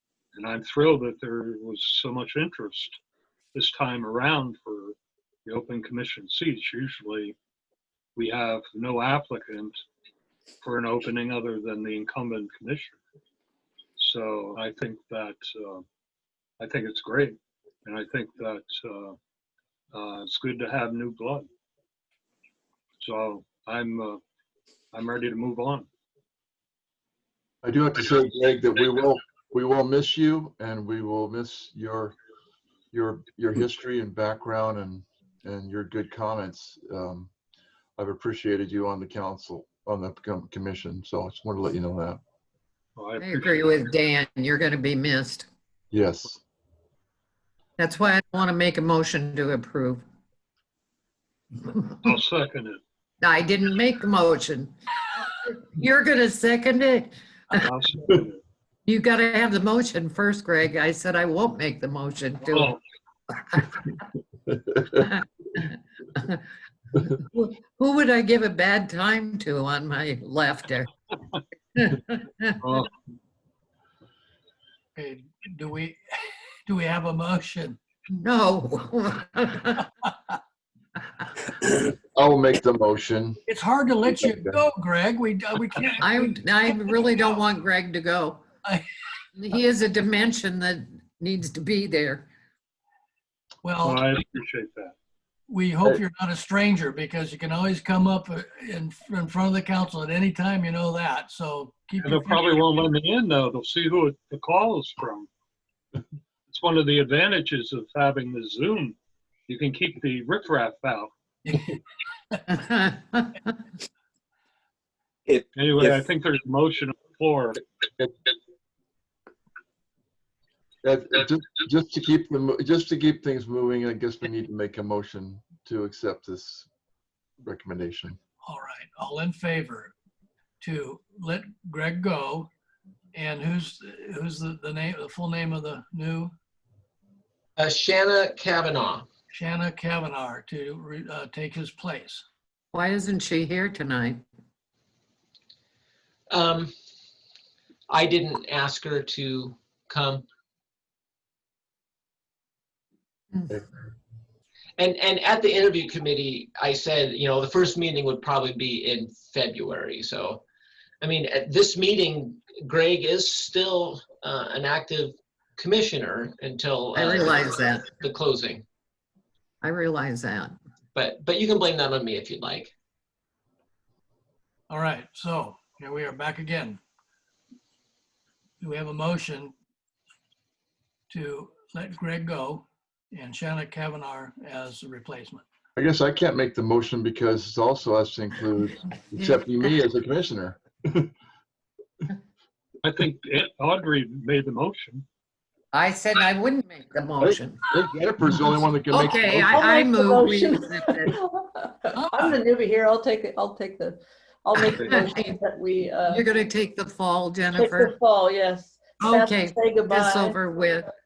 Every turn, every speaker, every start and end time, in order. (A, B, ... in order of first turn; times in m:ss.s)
0:00.3-0:03.0 A
0:03.5-0:07.4 A
0:08.2-0:09.8 A
0:10.6-0:13.0 A
0:14.0-0:15.9 A
0:16.6-0:19.2 A
0:19.9-0:21.5 A
0:23.0-0:24.2 A
0:24.9-0:25.9 A
0:27.6-0:32.1 B
0:32.9-0:37.3 B
0:38.0-0:42.2 B
0:43.0-0:43.6 A
0:43.2-0:45.5 C
0:45.9-0:46.4 B
0:47.8-0:50.0 C
0:52.0-0:52.8 A
0:53.2-0:57.6 C
0:57.5-0:58.4 A
0:58.8-1:02.7 C
1:02.4-1:02.8 A
1:03.3-1:03.8 C
1:05.0-1:05.6 C
1:06.1-1:06.4 C
1:07.2-1:10.9 C
1:11.8-1:12.6 C
1:12.6-1:12.9 A
1:15.0-1:17.8 D
1:18.1-1:19.9 C
1:21.7-1:23.4 B
1:23.5-1:26.3 D
1:24.2-1:24.6 B
1:26.0-1:28.4 C
1:29.4-1:32.3 C
1:33.6-1:34.0 D
1:33.8-1:35.0 A
1:35.5-1:42.7 D
1:42.0-1:45.3 A
1:46.5-1:49.0 A
1:49.5-1:51.1 A
1:51.4-1:51.7 D
1:52.6-1:53.3 C
1:55.6-1:57.6 A
2:00.8-2:06.7 B
2:07.4-2:08.2 B
2:08.4-2:09.9 D
2:10.6-2:12.5 D
2:13.1-2:16.3 D
2:17.6-2:19.1 E
2:19.3-2:22.2 D
2:22.7-2:24.2 C
2:26.3-2:26.7 E
2:27.9-2:30.2 E
2:34.8-2:40.4 E
2:41.0-2:48.6 E
2:46.9-2:47.8 C
2:49.6-2:50.6 C
2:50.9-2:52.7 E
2:54.7-2:56.8 D
2:58.6-2:59.5 D
3:01.1-3:05.4 D
3:05.8-3:11.1 B
3:12.8-3:15.0 A
3:15.7-3:17.7 C
3:17.2-3:19.7 B
3:18.9-3:21.1 C
3:19.4-3:26.2 F
3:21.9-3:22.3 D
3:24.8-3:25.4 C
3:26.1-3:27.9 C
3:27.5-3:30.5 F
3:29.0-3:30.8 C